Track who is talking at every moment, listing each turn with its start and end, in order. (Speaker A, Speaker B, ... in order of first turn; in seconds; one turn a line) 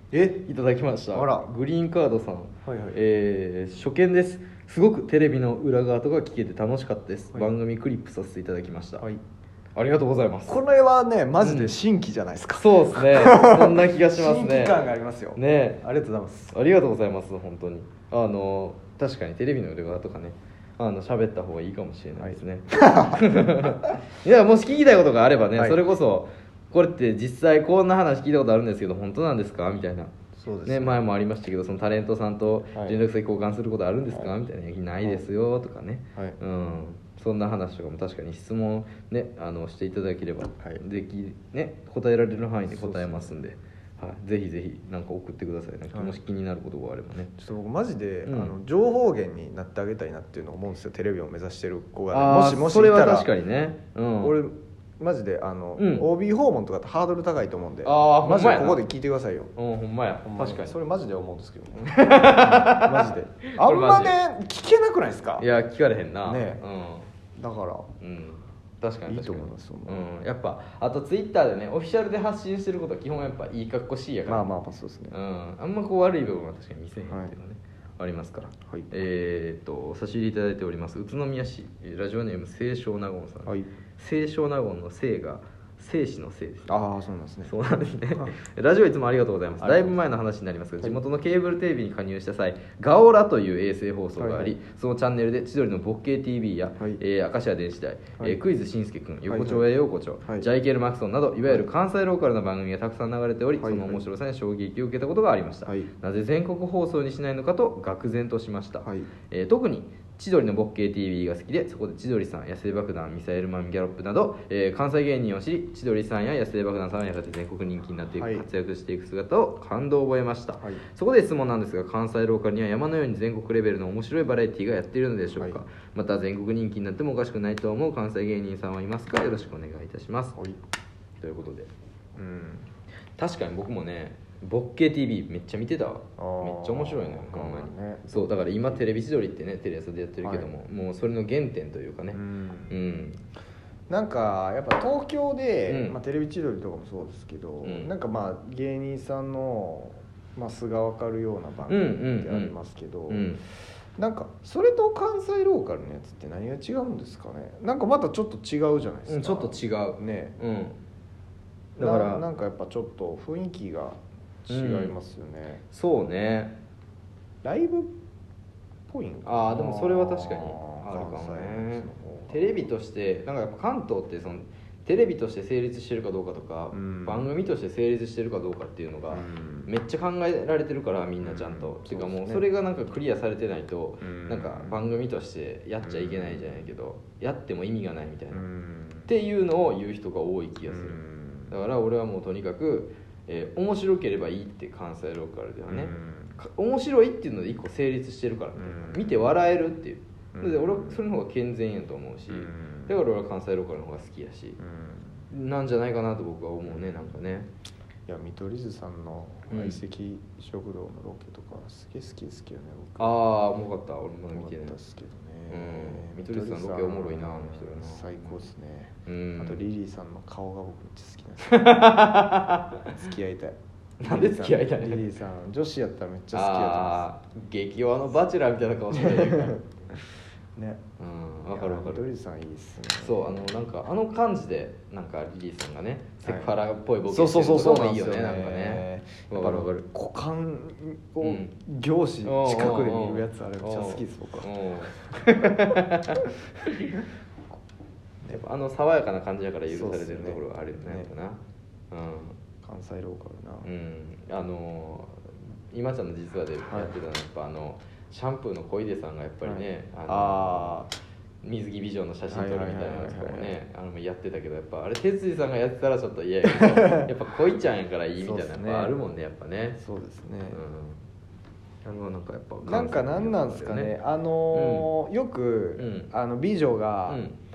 Speaker A: 0.1-0.4
Speaker B: 0.4-9.1
Speaker A: 1.1-1.5
Speaker A: 2.6-3.0
Speaker B: 9.8-10.6
Speaker A: 10.5-16.5
Speaker B: 11.4-11.7
Speaker B: 12.5-14.8
Speaker B: 15.3-15.8
Speaker B: 16.5-30.1
Speaker A: 22.2-23.8
Speaker A: 25.6-25.8
Speaker A: 30.3-31.0
Speaker B: 30.6-47.3
Speaker A: 32.7-33.0
Speaker A: 42.7-43.4
Speaker A: 47.4-53.3
Speaker B: 48.2-48.5
Speaker B: 52.1-54.4
Speaker A: 54.2-59.5
Speaker B: 55.8-56.1
Speaker B: 57.8-58.8
Speaker B: 59.5-60.8
Speaker A: 60.2-65.5
Speaker B: 61.9-64.1
Speaker B: 65.4-67.1
Speaker A: 66.2-66.6
Speaker A: 67.3-67.9
Speaker B: 68.0-74.4
Speaker A: 69.1-70.0
Speaker A: 74.3-75.2
Speaker B: 75.1-86.8
Speaker A: 77.1-77.3
Speaker A: 86.7-87.5
Speaker B: 87.5-130.4
Speaker A: 89.6-90.0
Speaker A: 94.2-94.6
Speaker A: 99.3-99.7
Speaker A: 103.6-104.0
Speaker A: 108.8-109.1
Speaker A: 118.1-118.5
Speaker A: 125.3-125.6
Speaker B: 131.2-131.7
Speaker A: 132.2-132.7
Speaker B: 133.2-143.2
Speaker A: 136.2-138.9
Speaker A: 140.2-140.5
Speaker A: 142.1-142.8
Speaker A: 143.9-153.4
Speaker B: 145.7-145.9
Speaker B: 147.6-147.9
Speaker B: 151.7-152.5
Speaker B: 153.1-153.4
Speaker A: 154.0-160.3
Speaker B: 159.1-160.8
Speaker B: 161.8-162.2
Speaker A: 161.8-165.6
Speaker B: 164.5-164.9
Speaker B: 165.7-166.6
Speaker A: 167.4-167.9
Speaker A: 168.9-172.7
Speaker B: 169.2-188.4
Speaker A: 176.7-177.3
Speaker A: 179.1-179.7
Speaker A: 181.2-182.5
Speaker A: 184.0-184.8
Speaker A: 185.8-186.6
Speaker A: 188.3-189.1
Speaker B: 189.1-204.6
Speaker A: 190.7-191.5
Speaker A: 195.7-196.4
Speaker A: 198.5-199.3
Speaker A: 200.3-201.0
Speaker A: 202.3-203.0
Speaker A: 204.6-205.2
Speaker B: 205.3-207.5
Speaker A: 208.1-213.2
Speaker B: 209.5-209.8
Speaker B: 213.0-214.7
Speaker A: 214.3-221.8
Speaker B: 215.5-218.4
Speaker B: 219.1-219.6
Speaker B: 221.5-223.0
Speaker A: 222.9-227.1
Speaker B: 224.0-225.1
Speaker B: 226.3-229.6
Speaker A: 228.9-229.6
Speaker A: 230.6-230.8
Speaker B: 231.0-232.0
Speaker A: 231.5-233.4
Speaker B: 232.9-239.9
Speaker A: 236.2-236.5
Speaker A: 237.1-245.8
Speaker B: 241.2-241.5
Speaker B: 242.2-247.0
Speaker B: 248.3-251.4
Speaker A: 249.7-251.1
Speaker B: 251.9-252.4
Speaker A: 252.6-253.7
Speaker B: 253.6-260.8
Speaker A: 259.4-260.9
Speaker B: 261.4-269.8
Speaker A: 262.3-263.6
Speaker A: 266.5-267.1
Speaker A: 268.2-268.9
Speaker A: 269.8-270.6
Speaker B: 270.5-271.0
Speaker B: 271.8-273.9
Speaker A: 272.6-277.2
Speaker B: 274.5-274.9
Speaker B: 275.8-276.1
Speaker B: 277.1-277.4